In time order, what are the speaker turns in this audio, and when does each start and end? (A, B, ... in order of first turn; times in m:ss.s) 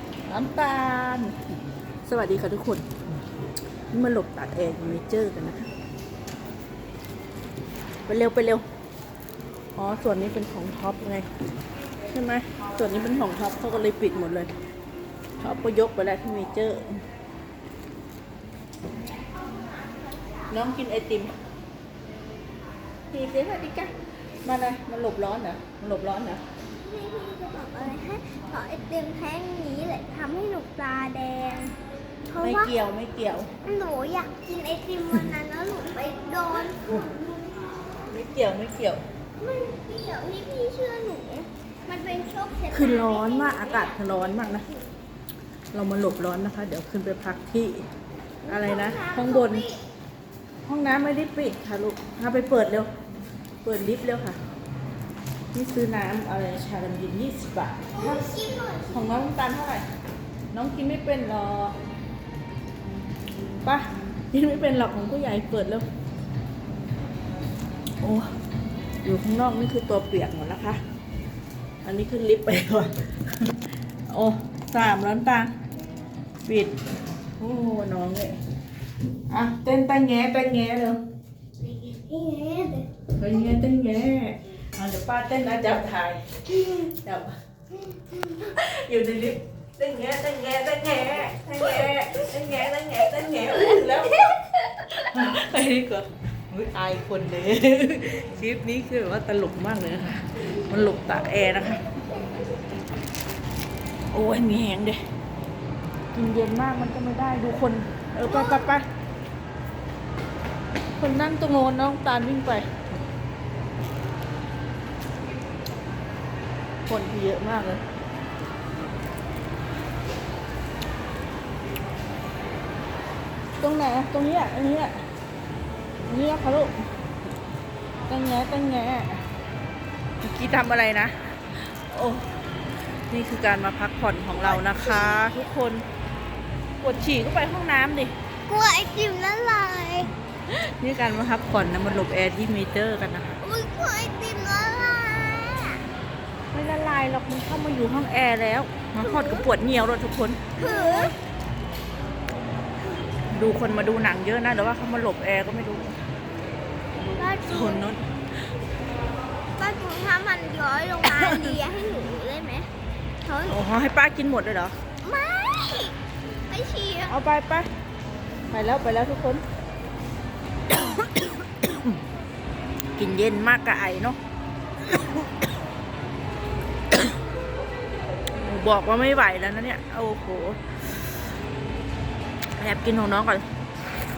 0:00.3-0:01.4 A
0:02.0-0:02.9 A
0:03.9-0:05.7 A
0:08.1-0:08.6 A
0:09.8-0:11.3 A
0:12.1-0:14.5 A
0:15.4-0:17.0 A
0:20.5-0:21.3 A
0:23.1-0:23.9 A
0:24.4-0:26.4 A
0:26.8-0:31.8 B
0:32.3-0:32.7 B
0:32.4-0:33.5 A
0:33.6-0:37.5 B
0:38.1-0:39.0 A
0:39.4-0:44.8 B
0:42.7-0:44.7 A
0:45.7-0:47.8 A
0:48.4-0:49.8 B
0:48.5-0:49.7 A
0:50.6-0:52.9 A
0:53.6-0:54.4 A
0:55.5-0:58.2 A
0:57.9-0:59.1 B
0:58.9-0:59.8 A
1:00.5-1:01.8 A
1:03.6-1:05.8 A
1:08.0-1:08.3 A
1:09.0-1:10.8 A
1:11.8-1:13.5 A
1:14.1-1:15.5 A
1:16.5-1:16.8 A
1:17.4-1:18.4 A
1:19.3-1:21.0 A
1:21.6-1:22.9 B
1:23.2-1:27.3 A
1:28.4-1:41.8 A
1:44.1-1:45.0 A
1:46.1-1:48.9 A
1:48.3-1:48.7 B
1:51.0-1:52.7 A
1:56.9-1:57.8 A
2:03.6-2:05.0 A
2:06.1-2:06.7 A
2:08.1-2:09.2 A
2:10.2-2:12.4 A
2:13.1-2:15.8 A
2:14.3-2:15.3 B
2:16.8-2:18.1 A
2:18.5-2:20.1 B
2:20.5-2:23.3 A
2:23.4-2:25.8 B
2:26.5-2:31.1 A
2:29.0-2:29.5 B
2:30.6-2:31.2 B
2:33.3-2:36.0 A
2:37.0-2:38.0 A
2:37.2-2:37.9 B
2:39.6-2:42.7 B
2:41.0-2:41.6 A
2:43.2-2:43.6 B
2:43.5-2:44.8 A
2:45.0-2:46.0 B
2:46.5-2:47.2 B
2:47.1-2:47.7 A
2:48.5-2:49.4 A
2:50.7-2:52.0 A
2:53.0-2:54.2 A
2:54.9-2:55.3 A
2:58.4-3:00.6 A
3:02.6-3:03.4 A